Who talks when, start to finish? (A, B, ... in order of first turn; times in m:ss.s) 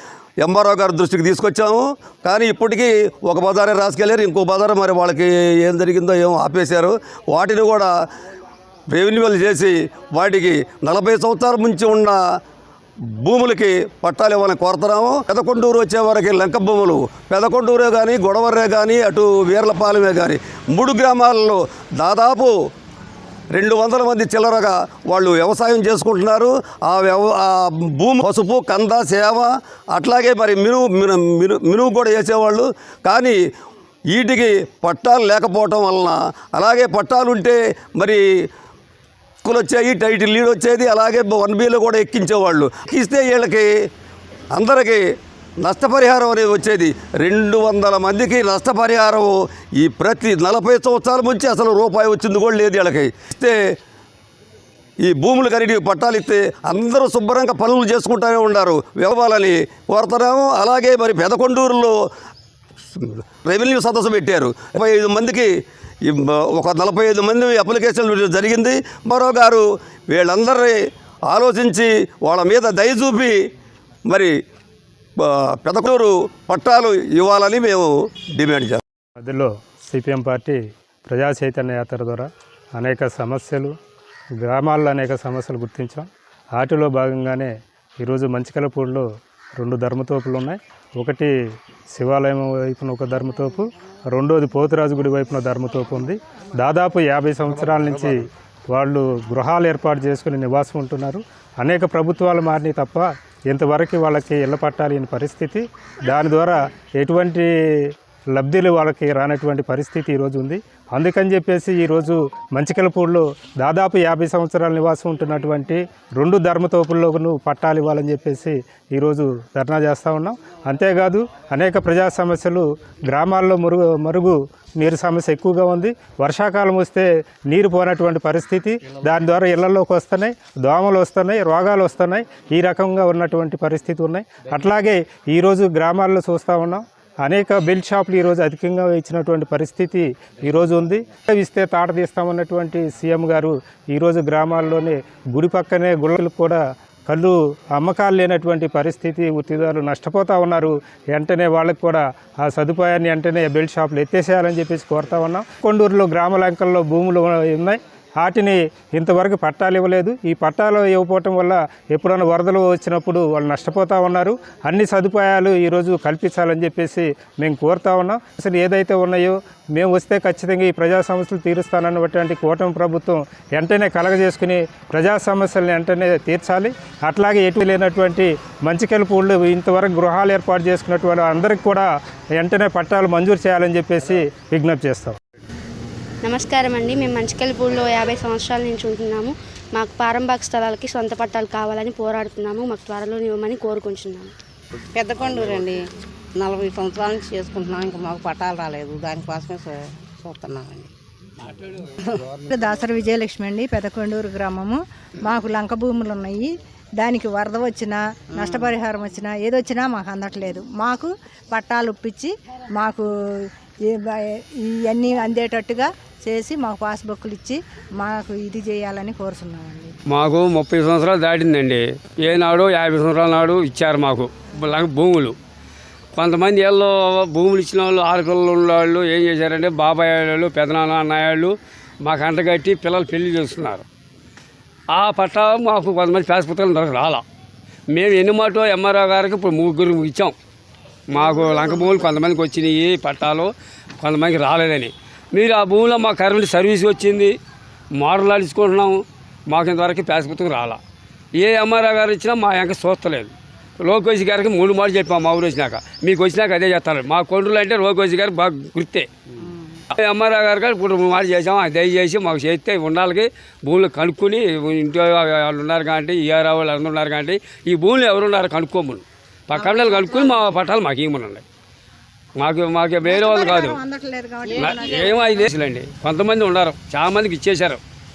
0:00.4-0:07.9 A
0:08.9-0:12.2 A
0:13.2-0:22.6 A
0:23.5-0:33.4 A
0:34.1-0:38.2 A
0:39.4-0:43.7 A
0:44.5-0:45.0 A
0:45.6-0:53.6 A
0:55.0-1:02.0 A
1:03.0-1:05.5 A
1:06.0-1:13.4 A
1:14.1-1:14.3 A
1:15.2-1:18.8 A
1:19.2-1:23.7 B
1:24.4-1:29.0 B
1:29.6-1:31.3 B
1:31.9-1:38.2 B
1:38.7-3:05.2 B
3:06.2-3:14.3 C
3:14.9-3:15.8 D
3:16.3-3:20.9 D
3:22.5-3:39.9 E
3:28.4-3:28.7 D
3:40.1-3:45.4 F
3:46.1-3:53.8 F
3:54.9-3:57.2 F
3:57.9-4:00.3 F
4:01.1-4:03.5 F
4:04.0-4:07.3 F
4:07.9-4:10.8 F
4:11.4-4:19.1 F
4:20.0-4:31.4 F
4:29.6-4:30.4 E
4:32.4-4:33.8 F
4:33.0-4:35.4 E
4:34.5-4:37.8 F